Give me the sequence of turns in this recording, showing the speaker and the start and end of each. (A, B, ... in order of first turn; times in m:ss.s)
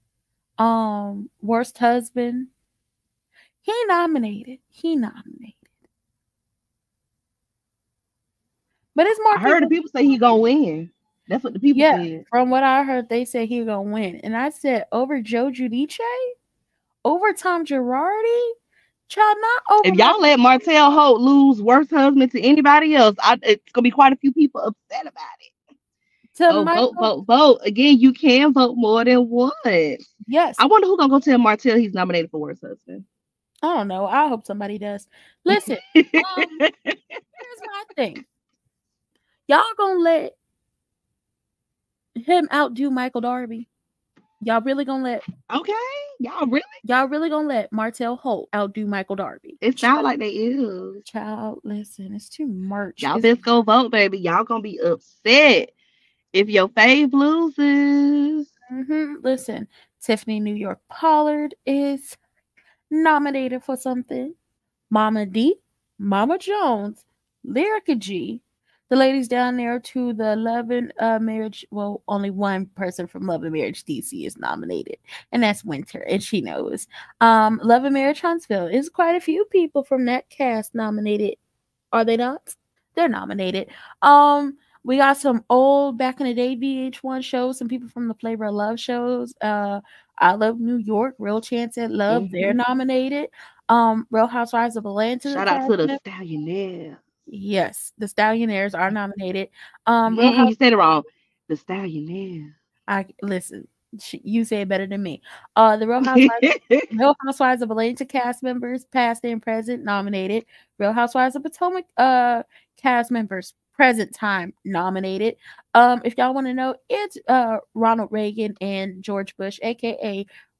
0:00.6-0:02.5 A
0:03.6-0:05.6 A
0:09.0-0:09.7 A
0:09.4-0:12.2 B
0:11.7-0:16.3 A
0:17.0-0:18.5 A
0:19.1-0:20.2 A
0:19.8-0:25.5 B
0:26.4-0:27.1 A
0:26.5-0:30.1 B
0:30.2-0:30.6 A
0:30.6-0:33.1 B
0:33.6-0:36.5 A
0:35.5-0:37.2 B
0:37.4-0:38.2 A
0:39.5-0:40.4 A
0:42.2-0:43.7 A
0:44.4-0:45.2 A
0:45.5-0:46.7 B
0:46.8-0:50.0 A
0:49.6-0:51.0 B
0:51.0-0:53.3 A
0:53.0-0:55.7 B
0:56.3-0:58.5 B
0:58.7-1:02.2 A
1:02.9-1:04.4 A
1:04.9-1:21.4 A
1:21.9-1:36.0 A
1:32.1-1:32.5 B
1:35.3-1:37.0 B
1:37.3-1:40.5 A
1:40.1-1:42.5 B
1:42.9-2:00.3 A
1:46.1-1:46.9 B